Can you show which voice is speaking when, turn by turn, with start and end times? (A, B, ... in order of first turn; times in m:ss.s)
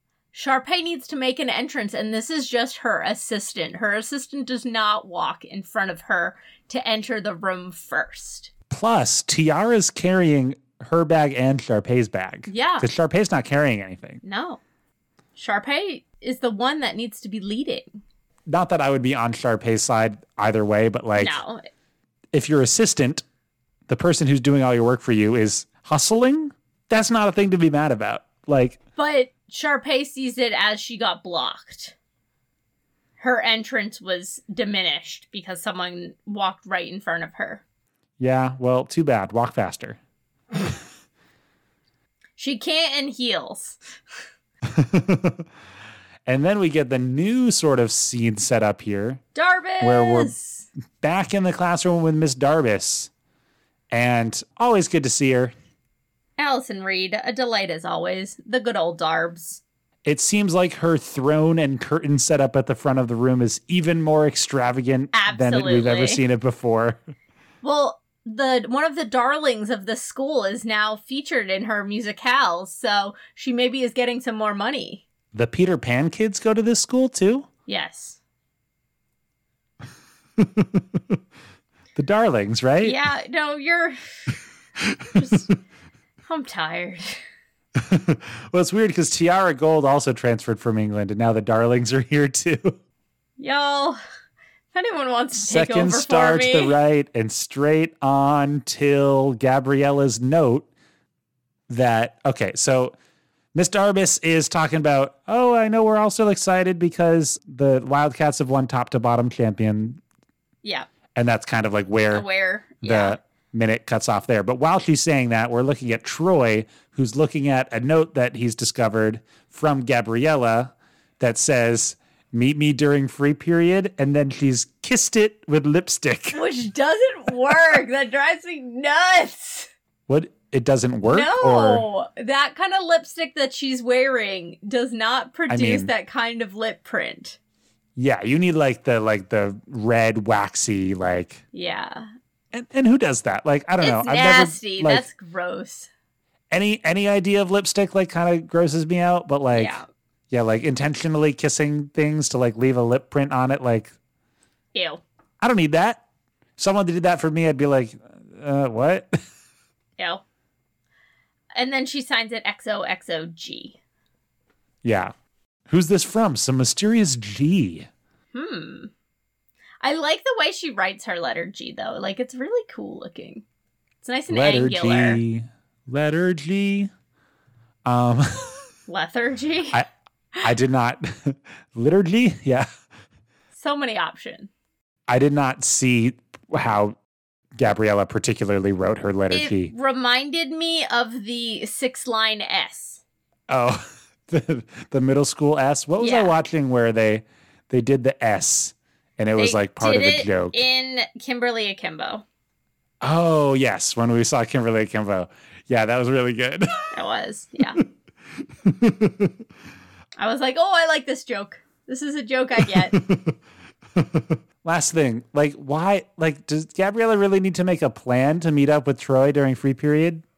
0:00.3-0:08.5 A
0:08.7-0:14.2 B
0:12.5-0:12.9 A
0:14.2-0:14.6 A
0:15.4-0:17.9 A
0:18.5-0:21.4 B
0:21.2-0:21.6 A
0:22.3-0:23.2 B
0:23.9-0:28.8 B
0:29.0-0:31.9 A
0:33.2-0:37.6 A
0:38.2-0:40.0 B
0:42.4-0:43.8 A
0:44.6-0:45.4 B
0:46.2-0:49.2 B
0:49.3-0:50.7 A
0:49.8-0:50.3 B
0:51.0-0:53.1 B
0:53.9-0:55.5 B
0:56.4-0:59.6 A
1:00.0-1:07.0 B
1:05.1-1:06.2 A
1:07.6-1:15.0 A
1:15.3-1:17.5 B
1:17.6-1:18.2 A
1:20.4-1:21.0 B
1:21.9-1:23.0 B
1:22.8-1:24.3 A
1:24.8-1:25.5 B
1:25.1-1:25.5 A
1:26.2-1:27.2 A
1:27.8-1:32.8 B
1:33.4-1:34.0 A
1:34.7-1:36.8 A
1:35.4-1:40.7 B
1:41.7-1:43.0 B
1:43.5-1:50.0 B
1:51.2-1:52.2 B
1:52.1-1:53.2 A
1:52.8-2:06.4 B
2:06.3-2:09.7 A
2:10.1-2:11.8 B
2:11.1-2:17.4 A
2:15.5-2:15.9 B
2:18.0-2:21.4 B
2:21.5-2:22.1 A
2:22.5-2:25.0 B
2:23.8-2:25.9 A
2:26.5-2:29.8 B
2:29.5-2:29.8 A
2:30.3-2:33.9 B
2:34.7-2:35.0 A
2:35.4-2:36.0 B
2:36.6-2:39.1 B
2:40.0-2:40.2 A
2:41.6-2:43.8 A
2:44.8-2:45.1 B
2:45.7-2:47.9 B
2:48.3-2:48.9 A
2:49.8-2:53.4 A
2:54.0-2:55.2 A
2:54.3-2:56.9 B
2:57.8-2:58.6 B
2:58.9-2:59.8 A
3:00.4-3:02.7 B
3:03.5-3:04.5 A
3:05.1-3:07.0 B
3:07.6-3:09.7 B
3:09.3-3:13.0 A
3:13.5-3:20.6 B
3:16.0-3:16.3 A
3:19.4-3:22.2 A
3:23.0-3:26.8 B
3:26.9-3:27.8 A
3:28.6-3:29.4 B
3:30.2-3:33.0 A
3:32.6-3:33.4 B
3:34.0-3:40.2 B